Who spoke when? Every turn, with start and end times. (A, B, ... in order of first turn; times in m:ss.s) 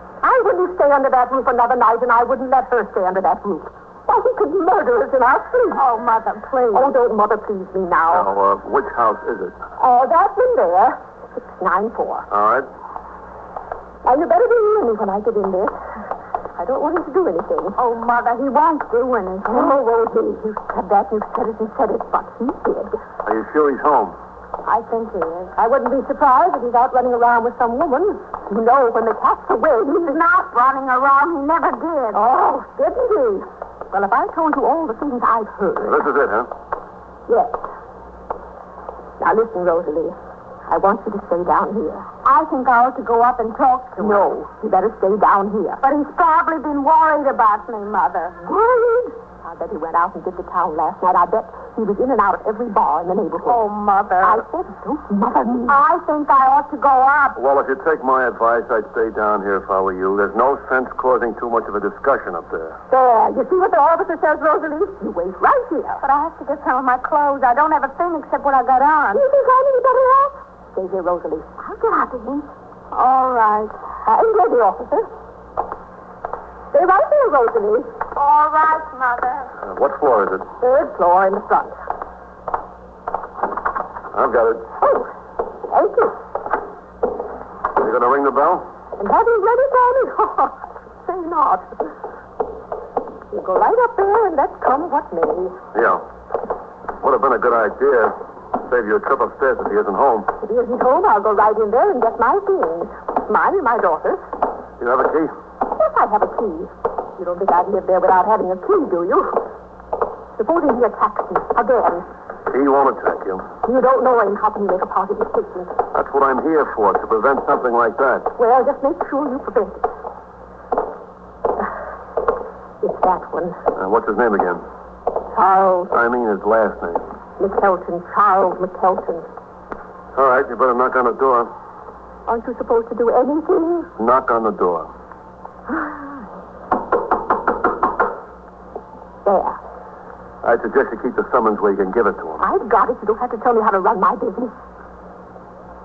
0:00.2-0:05.9 A
0:05.7-0:07.0 B
0:06.7-0:08.3 A
0:08.1-0:09.5 C
0:09.8-0:12.2 A
0:12.3-0:12.7 C
0:14.0-0:15.8 A
0:16.6-0:17.8 A
0:17.8-0:19.8 B
0:19.4-0:23.0 A
0:23.2-0:24.2 C
0:24.6-0:25.5 B
0:25.5-0:30.2 A
0:29.9-0:32.2 B
0:32.1-0:36.0 A
0:35.8-0:36.5 C
0:37.3-0:37.6 A
0:39.2-0:42.1 A
0:42.2-0:44.4 B
0:44.0-0:45.8 A
0:45.8-0:48.6 B
0:48.5-0:53.6 A
0:53.4-0:54.4 B
0:54.2-0:55.8 A
0:55.6-0:57.4 B
0:57.4-1:02.8 C
1:02.9-1:06.0 A
1:06.0-1:09.3 B
1:09.1-1:12.5 A
1:12.9-1:13.7 B
1:14.0-1:15.1 A
1:16.7-1:18.0 A
1:18.1-1:19.5 B
1:19.6-1:20.4 C
1:20.6-1:21.8 A
1:24.1-1:24.6 C
1:24.8-1:25.1 A
1:25.7-1:26.2 A
1:27.8-1:28.7 C
1:29.0-1:31.7 A
1:33.3-1:35.6 A
1:35.7-1:36.0 C
1:37.0-1:40.3 C
1:40.4-1:44.2 A
1:44.8-1:45.3 C
1:45.7-1:49.4 A
1:50.4-1:52.0 A
1:52.5-1:53.4 C
1:53.6-1:55.7 A
1:55.9-1:58.3 C
1:58.4-1:59.9 A
2:02.8-2:03.6 A
2:03.7-2:04.6 C
2:05.3-2:05.9 A
2:05.9-2:07.0 C
2:07.4-2:09.3 A
2:10.1-2:11.5 C
2:12.3-2:13.9 A
2:14.0-2:14.9 C
2:15.7-2:16.1 A
2:19.2-2:19.6 A
2:20.4-2:22.5 C
2:22.4-2:24.5 A